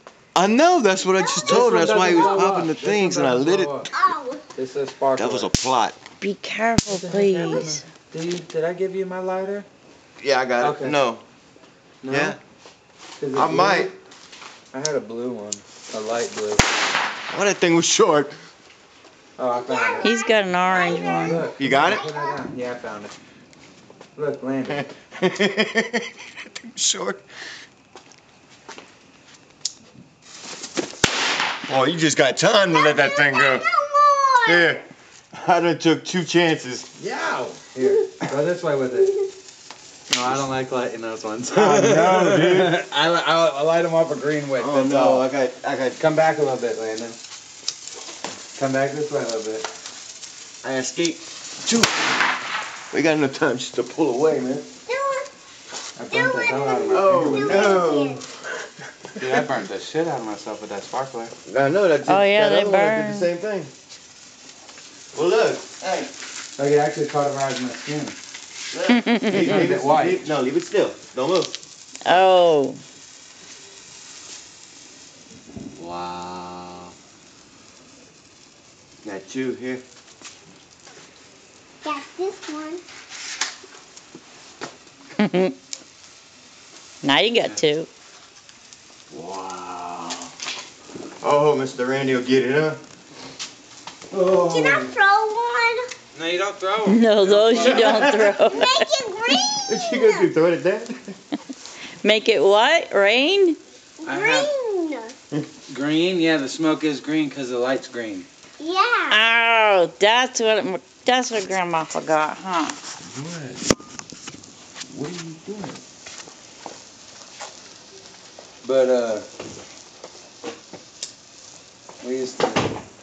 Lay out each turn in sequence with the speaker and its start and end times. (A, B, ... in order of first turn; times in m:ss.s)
0:00.3-0:03.8 A
0:01.1-0:02.4 B
0:01.4-0:03.9 C
0:03.9-0:04.4 B
0:04.5-0:05.5 C
0:05.2-0:06.0 A
0:06.2-0:07.8 D
0:06.8-0:09.6 C
0:10.2-0:11.2 A
0:10.6-0:11.0 C
0:12.0-0:12.4 C
0:12.1-0:12.4 A
0:13.2-0:13.9 C
0:13.3-0:13.9 A
0:14.7-0:16.6 C
0:17.3-0:18.4 A
0:19.4-0:20.1 C
0:19.5-0:22.4 B
0:20.0-0:21.4 D
0:20.8-0:23.1 C
0:21.5-0:22.1 A
0:24.2-0:24.9 C
0:24.7-0:27.2 A
0:31.7-0:33.6 A
0:32.7-0:34.8 B
0:34.4-0:36.9 A
0:37.0-0:39.1 C
0:40.1-0:45.3 C
0:41.5-0:42.8 A
0:44.6-0:46.0 A
0:46.0-0:47.2 C
0:48.6-0:49.7 C
0:50.6-0:52.1 A
0:52.9-0:54.7 A
0:54.9-0:55.3 B
0:56.0-0:57.8 C
0:56.1-0:58.2 B
0:56.9-0:58.3 A
0:59.1-0:59.4 A
0:59.2-1:01.3 C
1:01.4-1:03.7 A
1:02.0-1:03.3 D
1:05.1-1:06.1 A
1:06.6-1:08.2 C
1:08.7-1:11.6 A
1:08.9-1:09.7 D
1:09.3-1:10.3 C
1:12.0-1:12.8 D
1:15.8-1:16.9 C
1:19.0-1:19.8 A
1:21.8-1:22.8 B
1:25.2-1:25.6 D
1:27.0-1:27.9 D
1:29.1-1:30.1 A
1:31.2-1:32.8 A
1:34.1-1:34.9 A
1:34.3-1:35.9 B
1:36.1-1:38.4 C
1:36.8-1:38.8 D
1:38.4-1:40.3 B
1:39.6-1:41.1 A
1:42.0-1:43.6 D
1:44.0-1:45.1 B
1:44.0-1:44.5 C
1:45.7-1:48.3 C
1:48.6-1:49.2 B
1:49.1-1:52.8 D
1:53.0-1:53.6 A
1:54.9-1:55.8 A
1:58.6-1:59.2 C
2:02.0-2:02.8 C